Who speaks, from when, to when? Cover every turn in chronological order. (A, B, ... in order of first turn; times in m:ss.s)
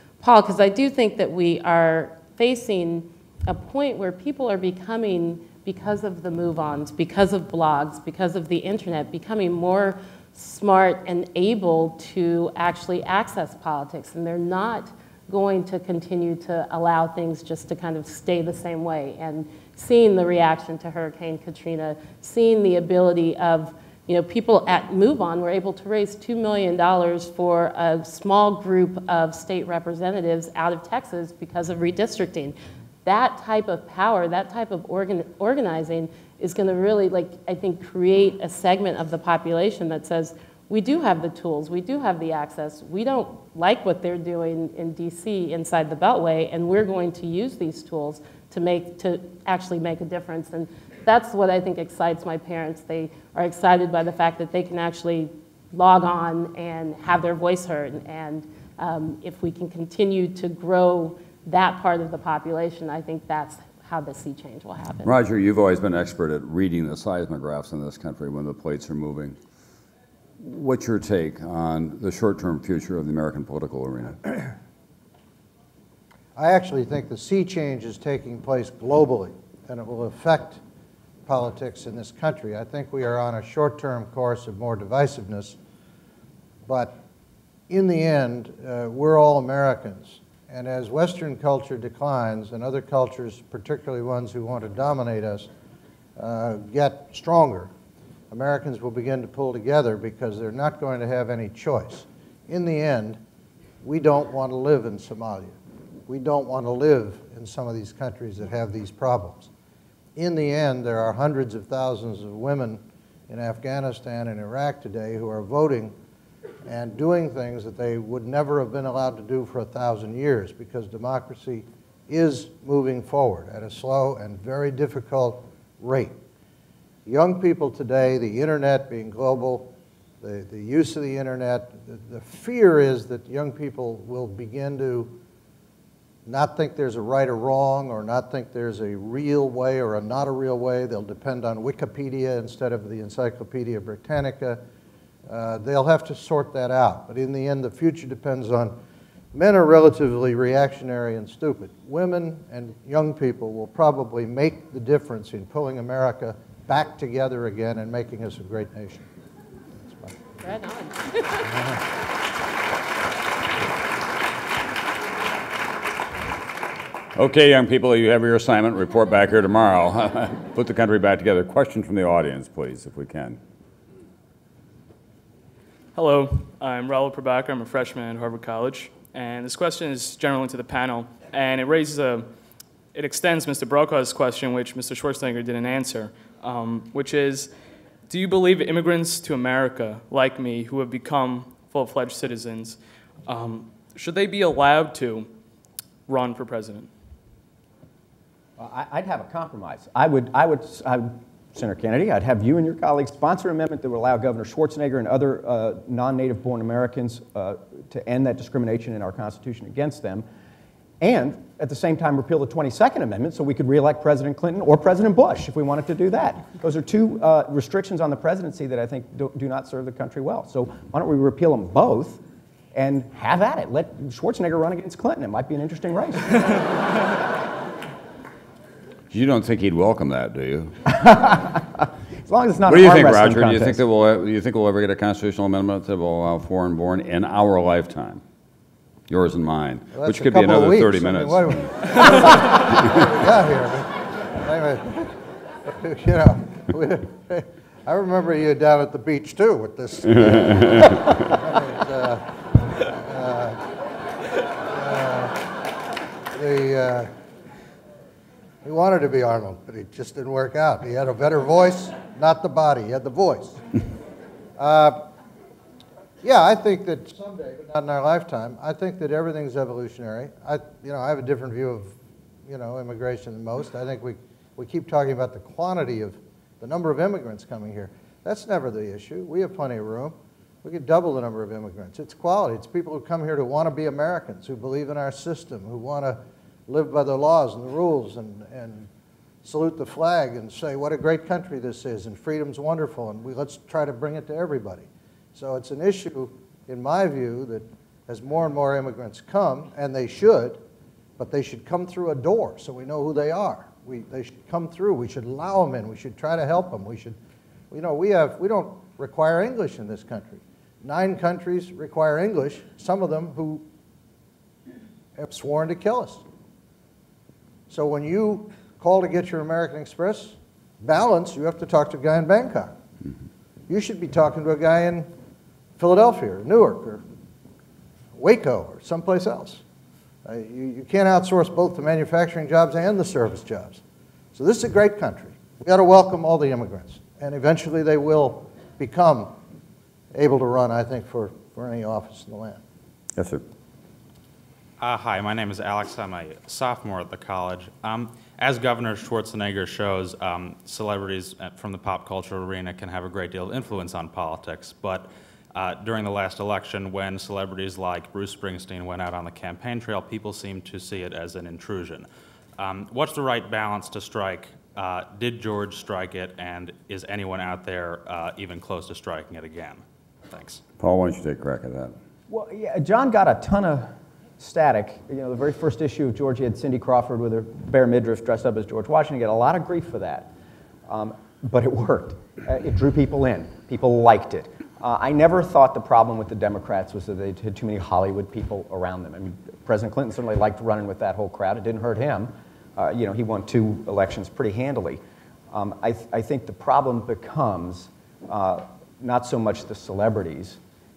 0:00.2-1:05.1 A
1:05.0-1:09.4 B
1:10.4-1:14.5 B
1:16.4-1:20.6 C
1:21.2-1:25.6 C
1:26.6-1:27.0 C
1:27.7-1:35.5 C
1:36.2-1:37.7 C
1:38.3-1:43.2 C
1:43.8-1:45.6 C
1:46.1-1:49.5 C
1:50.2-1:55.9 C
1:56.6-2:06.2 C
2:07.0-2:15.2 C
2:16.2-2:24.6 C
2:25.3-2:28.8 C
2:29.3-2:39.1 C
2:40.4-2:41.5 A
2:47.1-2:53.4 B
2:55.9-3:02.3 D
3:02.9-3:07.5 D
3:08.1-3:15.3 D
3:16.1-3:16.9 D
3:18.6-3:30.2 E
3:31.0-3:42.2 E
3:42.7-3:46.7 E
3:49.1-3:50.8 B
3:50.9-3:53.8 E
3:52.7-3:58.2 B
3:59.1-4:02.7 B
4:00.0-4:13.6 C
4:10.1-4:11.1 B
4:14.6-4:15.4 C
4:16.3-4:17.1 C
4:18.6-4:23.6 C
4:24.6-4:25.1 C
4:26.2-4:48.9 C
4:49.4-5:00.6 C
5:01.2-5:07.2 C
5:07.7-5:13.6 C
5:15.2-5:16.2 C
5:17.7-5:22.7 C
5:23.7-5:25.1 C
5:25.8-5:27.0 C
5:28.1-5:29.6 C
5:30.2-5:33.8 C
5:34.3-5:39.3 C
5:40.1-5:42.6 C
5:43.2-5:43.4 B
5:44.8-6:10.6 F
6:10.8-6:11.9 B
6:12.3-6:20.3 E
6:20.9-6:40.6 E